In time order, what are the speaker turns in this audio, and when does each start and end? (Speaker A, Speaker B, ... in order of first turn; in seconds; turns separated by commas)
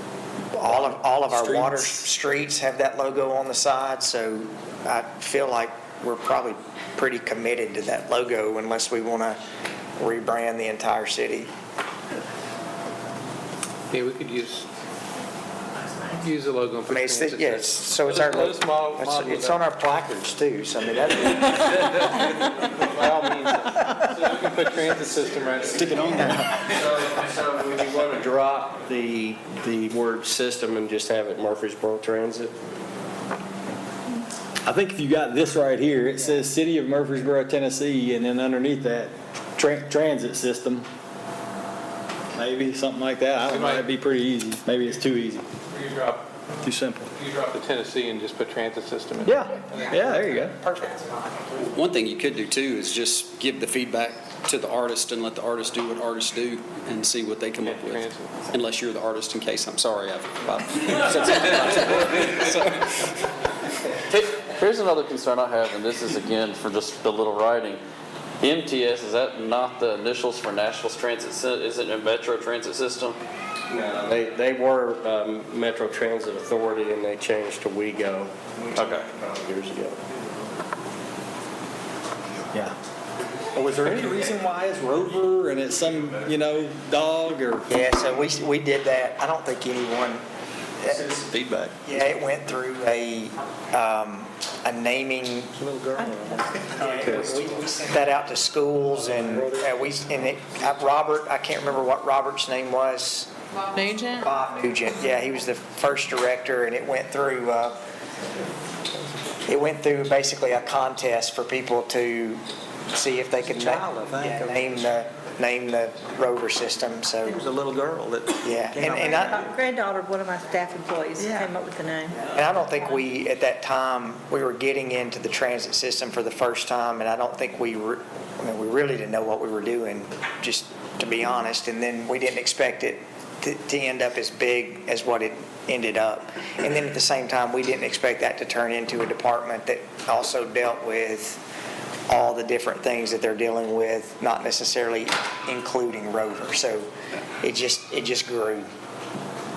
Speaker A: 0.5-9.4, Speaker B: 0.7-2.1, Speaker A: 10.0-11.5, Speaker C: 13.9-14.7, Speaker C: 16.1-19.6, Speaker A: 16.9-22.1, Speaker C: 22.1-26.3, Speaker B: 25.8-26.6, Speaker A: 25.9-26.5, Speaker D: 26.7-32.6, Speaker B: 34.6-40.9, Speaker B: 42.4-45.5, Speaker C: 43.5-43.9, Speaker C: 45.7-46.3, Speaker B: 46.6-47.1, Speaker C: 47.2-50.0, Speaker B: 49.2-50.6, Speaker E: 51.7-63.2, Speaker C: 57.6-58.5, Speaker F: 64.1-67.8, Speaker F: 68.4-73.2, Speaker D: 73.7-80.0, Speaker F: 78.8-79.1, Speaker B: 83.5-87.7, Speaker A: 87.7-90.2, Speaker A: 90.8-91.1, Speaker B: 91.2-91.7, Speaker A: 91.8-95.5, Speaker G: 96.0-96.6, Speaker A: 96.7-103.3, Speaker D: 96.8-97.2, Speaker G: 103.7-104.3, Speaker A: 104.2-107.8, Speaker A: 109.5-117.4, Speaker H: 113.5-114.8, Speaker H: 117.3-119.4, Speaker A: 118.4-119.5, Speaker G: 119.0-122.2, Speaker A: 122.3-141.4, Speaker A: 142.1-146.9, Speaker A: 147.4-148.7